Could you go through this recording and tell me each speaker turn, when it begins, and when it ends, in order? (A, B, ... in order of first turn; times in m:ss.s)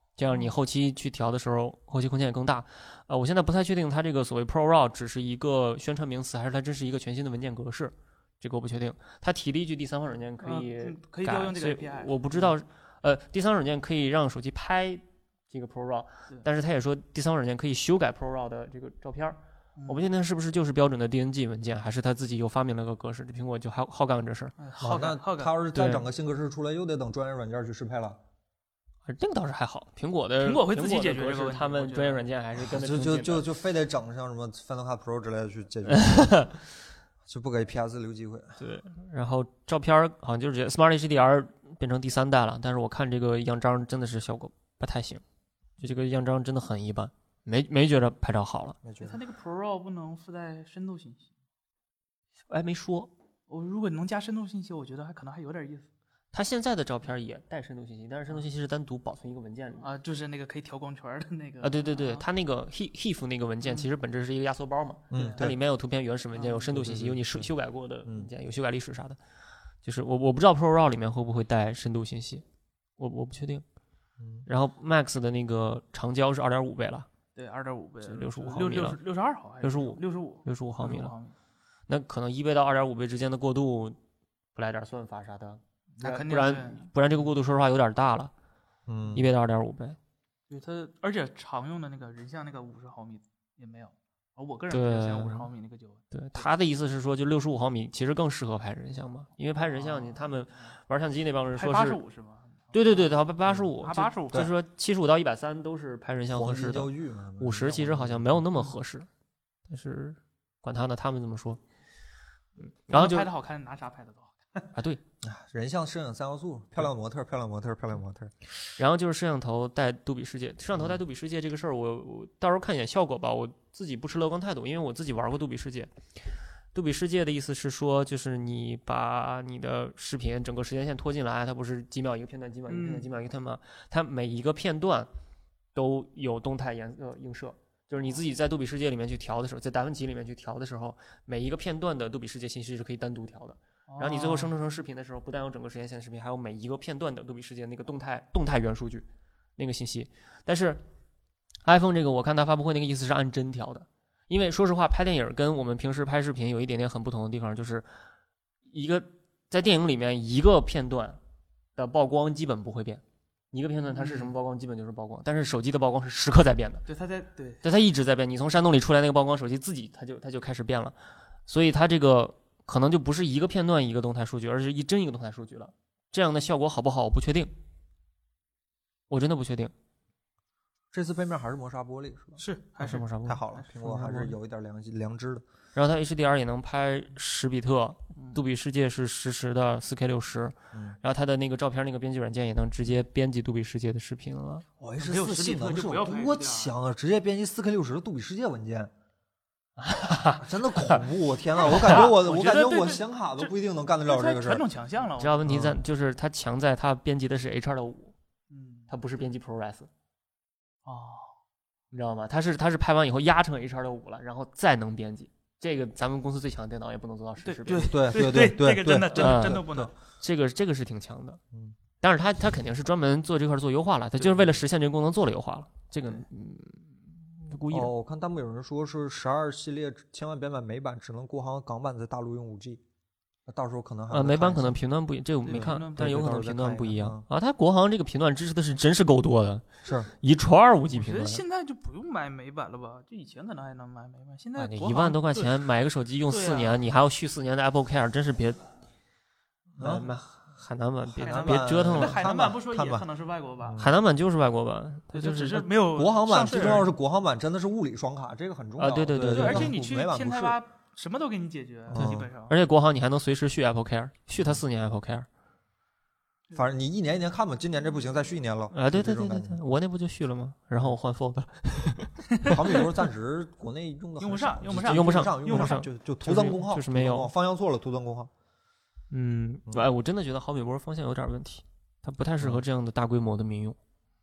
0:00.2-0:24.5 A
0:10.4-0:12.5 B
0:19.8-0:20.0 B
0:24.6-0:25.6 B
0:24.8-0:28.2 C
0:25.7-0:26.0 A
0:29.0-0:33.5 A
0:30.4-0:32.2 B
0:32.6-0:36.4 C
0:35.9-0:36.6 A
0:37.2-0:38.6 C
0:38.6-0:45.2 A
0:45.8-0:48.8 A
0:48.8-0:49.2 C
0:49.0-0:51.3 B
0:52.5-0:53.1 A
0:53.5-0:55.9 B
0:56.3-0:59.9 A
0:59.8-1:02.2 B
1:01.6-1:09.2 A
1:03.6-1:03.9 B
1:05.1-1:05.6 C
1:05.1-1:05.5 B
1:06.4-1:06.7 B
1:06.7-1:07.5 C
1:09.8-1:12.4 A
1:13.0-1:13.6 A
1:14.2-1:14.5 C
1:14.4-1:17.1 A
1:17.3-1:21.3 B
1:18.0-1:19.0 A
1:19.6-1:21.1 A
1:21.9-1:24.0 A
1:24.5-1:28.3 A
1:26.0-1:26.9 B
1:28.9-1:29.2 C
1:29.1-1:30.0 A
1:30.5-1:36.5 B
1:34.7-1:35.5 A
1:36.1-1:42.0 A
1:39.6-1:40.3 B
1:41.6-1:43.1 B
1:42.7-1:49.1 A
1:43.8-1:44.5 B
1:46.3-1:48.4 C
1:49.7-1:51.6 A
1:52.9-1:53.3 A
1:52.9-1:54.7 B
1:54.7-1:55.0 A
1:55.2-1:58.3 C
1:58.8-2:05.9 A
2:06.7-2:15.1 A
2:12.7-2:13.1 B
2:15.7-2:30.8 A
2:23.9-2:24.5 B
2:31.6-2:37.9 A
2:38.7-2:41.2 A
2:41.8-2:46.8 A
2:43.9-2:44.3 B
2:46.9-2:47.6 B
2:47.6-2:57.5 A
2:59.1-2:59.7 A
3:00.9-3:02.4 C
3:02.4-3:03.6 B
3:02.8-3:04.3 A
3:03.2-3:05.4 C
3:05.7-3:14.6 A
3:10.7-3:11.0 C
3:14.8-3:18.9 C
3:15.0-3:16.7 B
3:19.8-3:21.0 A
3:20.4-3:24.6 C
3:21.6-3:23.5 B
3:21.7-3:22.0 A
3:24.0-3:25.6 B
3:25.2-3:28.1 A
3:25.5-3:25.8 C
3:28.5-3:28.9 B
3:28.9-3:29.9 A
3:30.8-3:31.3 B
3:31.9-3:38.0 A
3:37.4-3:39.9 B
3:37.9-3:39.9 C
3:39.1-3:39.6 A
3:40.2-3:41.4 A
3:42.0-3:47.9 A
3:47.7-3:52.8 C
3:53.5-3:54.8 C
3:54.1-4:01.4 A
3:55.4-3:56.3 B
3:55.5-3:57.2 C
3:59.8-4:00.1 C
4:00.9-4:05.5 B
4:04.6-4:08.6 A
4:06.3-4:06.8 B
4:09.7-4:10.1 C
4:09.8-4:12.2 A
4:11.0-4:13.1 C
4:11.2-4:13.8 B
4:13.6-4:13.9 C
4:13.8-4:15.7 A
4:15.1-4:16.9 B
4:15.9-4:20.6 C
4:18.8-4:19.7 A
4:19.2-4:22.5 B
4:21.9-4:22.3 C
4:21.9-4:25.3 A
4:26.5-4:29.6 C
4:28.7-4:32.5 A
4:32.4-4:38.3 C
4:34.2-4:35.8 B
4:34.8-4:37.3 A
4:39.1-4:43.8 A